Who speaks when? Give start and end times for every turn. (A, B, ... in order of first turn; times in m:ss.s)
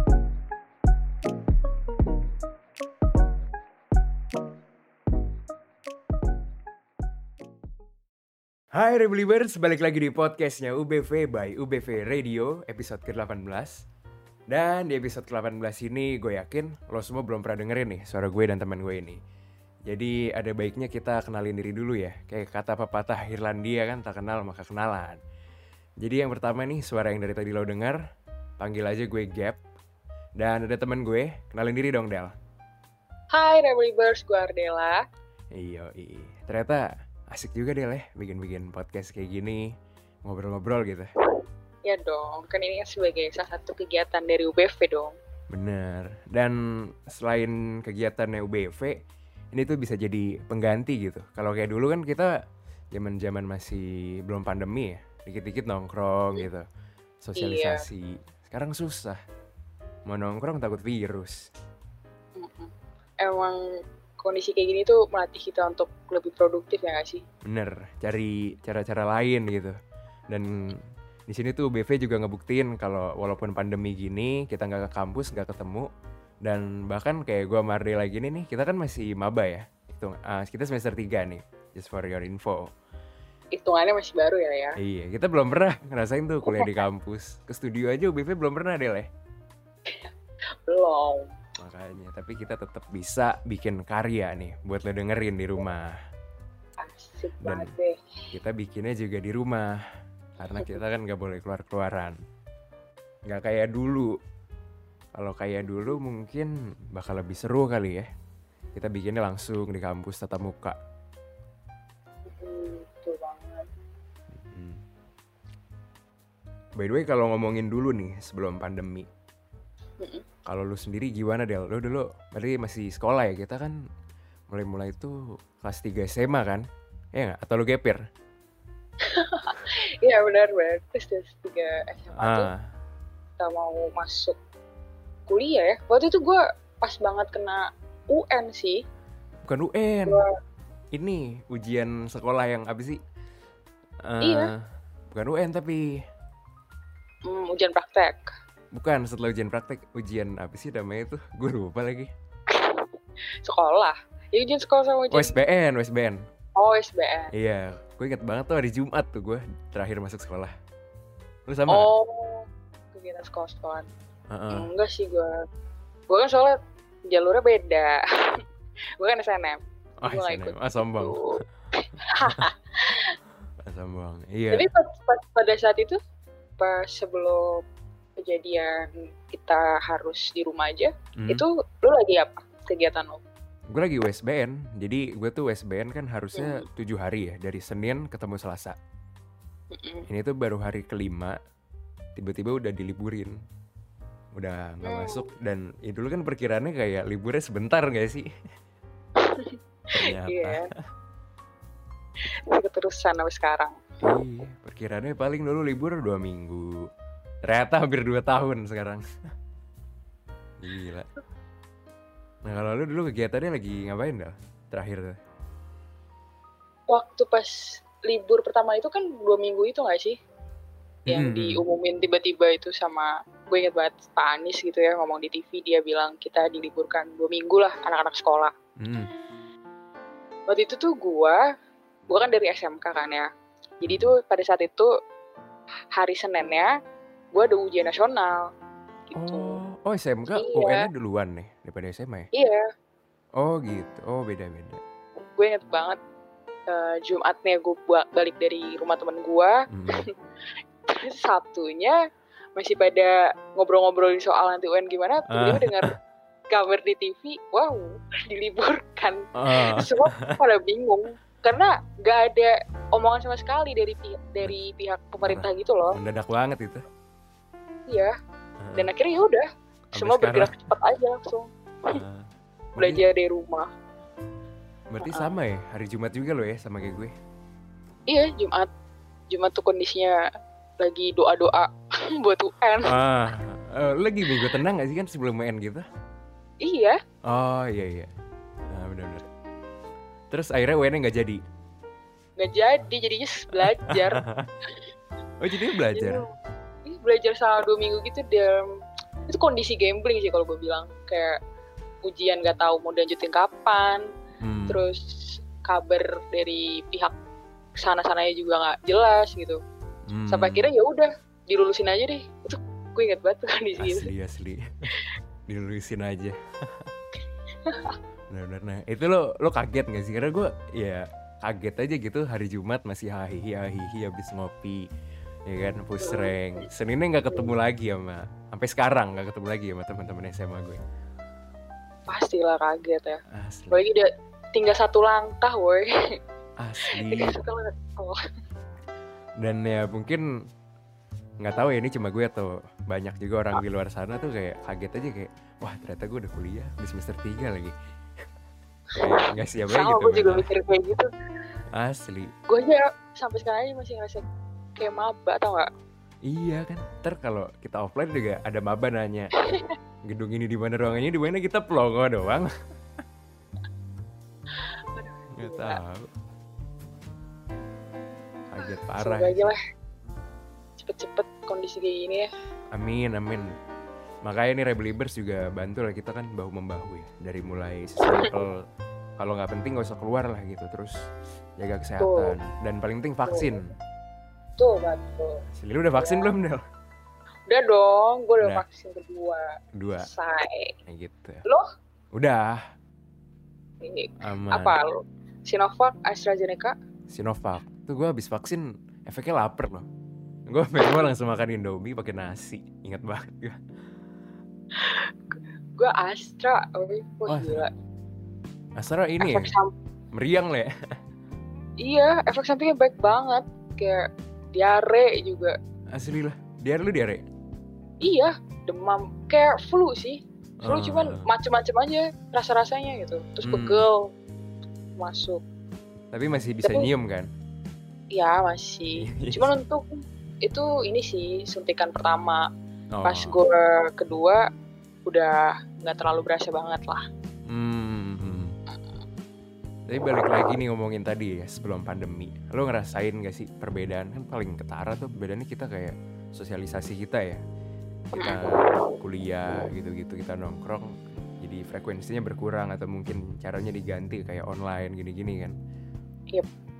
0:08.7-0:13.8 A
0:14.5-0:19.2 A
0:19.9-0:25.2 A
0:26.0-0:28.0 A
0:28.6-0:29.6 A
0:30.4-0:32.3 A
0:33.3-0:35.0 B
0:35.5-0:39.6 A
0:40.2-0:41.1 A
0:41.8-0:45.2 B
0:45.5-0:49.0 A
0:49.5-0:52.3 A
0:52.9-0:56.6 A
0:57.2-0:59.2 A
0:57.4-0:57.8 B
1:00.1-1:01.4 A
1:02.4-1:03.6 B
1:04.2-1:07.2 B
1:07.4-1:09.7 A
1:10.3-1:15.9 A
1:16.4-1:22.6 A
1:23.5-1:24.8 B
1:24.8-1:29.1 A
1:26.5-1:26.8 B
1:30.6-1:31.3 B
1:31.6-1:35.9 A
1:36.8-1:38.0 B
1:37.4-1:37.7 A
1:38.3-1:39.7 A
1:40.4-1:42.2 A
1:43.3-1:44.1 A
1:45.1-1:48.1 A
1:48.7-1:50.8 A
1:52.3-1:53.7 B
1:54.4-1:54.8 A
1:56.8-1:59.1 A
2:00.0-2:00.2 B
2:00.4-2:03.8 A
2:04.5-2:06.6 A
2:07.1-2:08.0 A
2:09.1-2:12.5 B
2:12.2-2:12.5 A
2:13.4-2:14.4 B
2:15.3-2:18.8 B
2:19.5-2:20.2 A
2:20.9-2:23.0 A
2:24.0-2:24.6 A
2:24.2-2:24.5 B
2:25.1-2:25.8 A
2:27.3-2:28.3 B
2:28.7-2:32.1 A
2:32.5-2:32.9 B
2:33.4-2:35.4 B
2:35.1-2:36.2 A
2:36.6-2:37.3 B
2:37.3-2:40.5 A
2:41.5-2:41.9 A
2:41.7-2:43.9 B
2:44.3-2:44.7 A
2:44.5-2:45.3 B
2:46.1-2:46.6 B
2:47.1-2:48.4 B
2:49.0-2:53.2 B
2:50.0-2:51.2 A
2:52.2-2:52.5 A
2:53.6-2:54.7 A
2:54.5-2:56.0 B
2:56.6-2:57.6 B
2:58.2-3:03.2 B
3:01.2-3:01.4 A
3:03.7-3:08.8 A
3:06.3-3:06.6 B
3:09.7-3:10.1 B
3:10.1-3:11.3 A
3:12.2-3:13.4 A
3:14.3-3:18.2 A
3:14.8-3:15.3 B
3:19.2-3:20.7 B
3:19.9-3:20.7 A
3:22.5-3:23.8 B
3:24.0-3:26.7 A
3:27.4-3:29.0 A
3:30.6-3:31.1 A
3:32.4-3:35.2 A
3:36.9-3:40.2 B
3:41.1-3:41.6 A
3:41.1-3:48.5 B
3:48.8-3:49.1 A
3:50.5-3:51.4 B
3:52.1-3:53.3 B
3:53.8-3:54.9 B
3:53.8-3:54.1 A
3:55.9-3:56.7 B
3:57.3-3:58.4 B
3:59.1-3:59.6 B
3:59.1-4:02.3 A
4:00.3-4:00.9 B
4:02.3-4:02.6 B
4:03.4-4:04.8 A
4:05.2-4:06.0 B
4:06.7-4:09.5 B
4:09.7-4:10.1 A
4:10.9-4:12.0 B
4:12.6-4:15.9 B
4:15.3-4:15.9 A
4:16.5-4:26.0 B
4:19.4-4:20.4 A
4:25.2-4:26.8 A
4:28.6-4:28.9 A
4:28.8-4:32.0 B
4:29.9-4:30.5 A
4:31.9-4:33.0 A
4:32.8-4:33.7 B
4:34.9-4:37.1 A
4:35.0-4:35.3 B
4:38.1-4:38.7 B
4:39.3-4:40.2 B
4:40.8-4:42.9 B
4:42.8-4:45.8 A
4:46.6-4:47.0 B
4:47.3-4:48.1 A
4:48.7-4:49.2 A
4:50.3-4:51.4 A
4:52.4-4:54.2 B
4:53.9-4:54.5 A
4:55.4-4:56.2 A
4:55.9-4:56.3 B
4:56.8-4:58.6 B
4:59.3-5:01.4 B
5:02.0-5:04.0 B
5:04.4-5:04.8 A
5:04.7-5:07.1 B
5:07.8-5:09.6 B
5:10.1-5:10.7 A
5:10.3-5:14.1 B
5:13.8-5:14.6 A
5:15.5-5:16.9 A
5:17.6-5:18.0 B
5:18.3-5:24.8 A
5:25.5-5:30.8 A
5:26.0-5:26.6 B
5:32.1-5:33.2 B
5:33.3-5:33.8 A
5:33.7-5:35.9 B
5:36.6-5:37.4 A
5:36.9-5:38.2 B
5:39.4-5:40.2 A
5:41.4-5:47.7 A
5:48.9-5:51.1 B
5:49.0-5:50.5 A
5:51.7-5:52.3 A
5:52.5-5:54.2 B
5:54.8-5:55.7 B
5:56.3-5:59.3 A
5:59.4-5:59.7 B
6:00.1-6:02.5 A
6:04.9-6:05.8 B
6:05.4-6:06.1 A
6:08.5-6:09.5 A
6:08.6-6:09.6 B
6:10.8-6:12.3 B
6:12.7-6:13.5 A
6:14.2-6:18.6 A
6:18.1-6:18.4 B
6:19.2-6:20.9 A
6:21.6-6:23.7 A
6:22.0-6:22.3 B
6:23.2-6:23.6 B
6:24.6-6:25.4 B
6:25.5-6:26.6 A
6:26.0-6:26.3 B
6:27.5-6:29.4 B
6:29.8-6:30.0 A
6:30.0-6:30.7 B
6:30.9-6:31.4 A
6:32.1-6:32.6 A
6:33.8-6:36.8 B
6:34.2-6:34.8 A
6:37.1-6:39.9 A
6:40.5-6:43.6 A
6:40.8-6:41.0 B
6:44.8-6:47.7 B
6:47.3-6:47.6 A
6:48.8-6:49.5 A
6:49.2-6:49.7 B
6:50.1-6:50.7 A
6:51.8-6:55.6 B
6:55.9-6:57.2 A
6:58.0-7:04.1 B
7:00.6-7:01.3 A
7:03.4-7:03.8 A
7:05.0-7:05.4 B
7:06.1-7:07.3 A
7:06.6-7:06.9 B
7:08.1-7:12.4 B
7:09.0-7:09.5 A
7:13.0-7:13.4 A
7:13.0-7:14.4 B
7:15.0-7:17.0 B
7:17.5-7:18.5 A
7:19.9-7:27.4 A
7:28.1-7:35.5 A
7:28.2-7:28.8 B